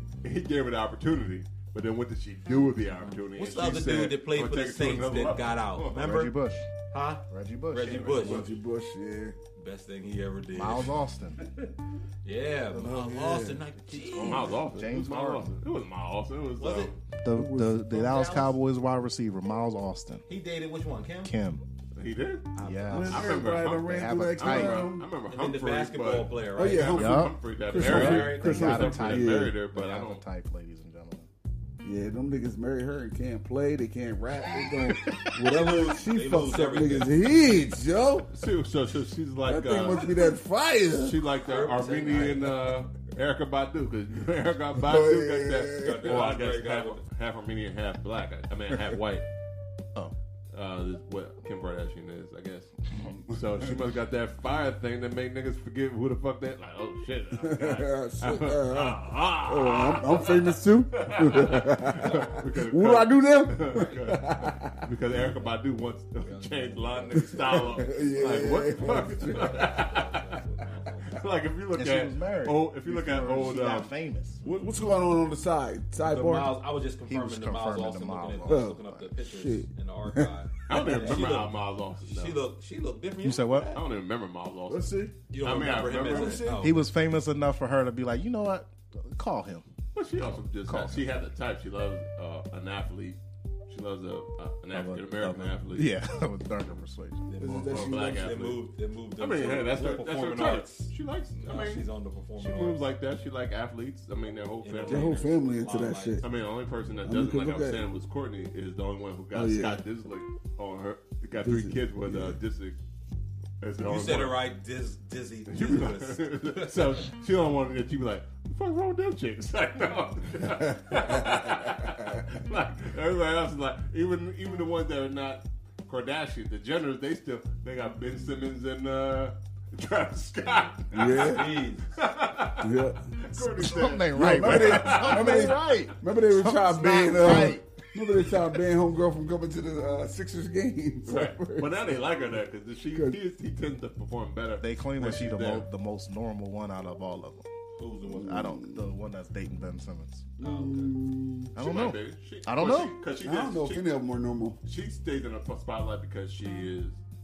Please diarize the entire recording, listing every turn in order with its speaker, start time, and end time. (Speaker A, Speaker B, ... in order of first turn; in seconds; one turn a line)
Speaker A: 0.2-6.0
Speaker B: 3.0-6.3
Speaker C: 5.9-6.7
Speaker B: 6.9-8.5
Speaker C: 7.3-8.5
Speaker D: 8.2-9.4
Speaker B: 9.6-11.7
Speaker C: 10.5-11.4
Speaker B: 12.2-14.5
Speaker D: 12.7-13.6
Speaker C: 14.0-15.6
Speaker D: 14.2-14.5
Speaker A: 14.2-17.0
Speaker B: 16.6-16.9
Speaker C: 17.2-20.2
Speaker D: 17.3-18.0
Speaker B: 17.9-18.5
Speaker B: 20.3-21.3
Speaker C: 21.2-21.6
Speaker A: 21.9-22.5
Speaker C: 22.6-24.9
Speaker B: 22.6-23.1
Speaker D: 22.9-25.1
Speaker A: 23.1-30.2
Speaker B: 25.3-26.9
Speaker D: 26.6-29.5
Speaker C: 26.9-31.3
Speaker B: 27.7-28.9
Speaker D: 31.8-38.3
Speaker C: 34.6-35.3
Speaker B: 35.4-37.1
Speaker A: 38.3-40.4
Speaker D: 39.5-41.2
Speaker A: 40.9-49.2
Speaker B: 41.4-42.6
Speaker D: 44.8-46.3
Speaker B: 45.7-47.0
Speaker A: 50.5-70.4
Speaker D: 53.0-53.4
Speaker D: 57.4-64.8
Speaker B: 63.7-64.0
Speaker B: 66.2-71.2
Speaker D: 67.2-69.7
Speaker A: 71.1-73.9
Speaker C: 71.7-74.4
Speaker B: 74.4-74.9
Speaker D: 74.4-76.6
Speaker B: 76.0-83.8
Speaker C: 77.1-79.0
Speaker D: 78.5-81.3
Speaker A: 80.7-82.4
Speaker C: 83.2-83.7
Speaker A: 83.7-86.5
Speaker D: 84.7-85.1
Speaker B: 85.3-86.9
Speaker D: 85.8-86.7
Speaker C: 86.5-89.7
Speaker A: 89.9-96.0
Speaker C: 90.7-91.1
Speaker C: 94.7-97.3
Speaker B: 97.3-102.8
Speaker D: 97.4-98.3
Speaker A: 97.6-98.6
Speaker A: 99.2-101.8
Speaker A: 102.4-105.2
Speaker B: 104.6-106.2
Speaker D: 104.8-106.2
Speaker A: 106.2-112.8
Speaker D: 107.0-107.8
Speaker D: 109.3-109.8
Speaker D: 111.4-112.4
Speaker A: 113.6-114.4
Speaker B: 113.8-117.0
Speaker A: 115.5-135.7
Speaker D: 120.7-122.2
Speaker D: 130.9-131.5
Speaker B: 131.0-132.0
Speaker D: 132.6-133.1
Speaker C: 133.3-137.6
Speaker D: 134.1-141.9
Speaker A: 137.2-137.5
Speaker A: 141.0-145.6
Speaker C: 144.6-147.5
Speaker B: 147.8-148.5
Speaker D: 148.1-148.9
Speaker C: 148.1-150.3
Speaker D: 150.4-151.5
Speaker B: 150.4-150.9
Speaker C: 151.5-152.9
Speaker A: 151.6-153.9
Speaker D: 153.2-154.6
Speaker A: 154.6-157.0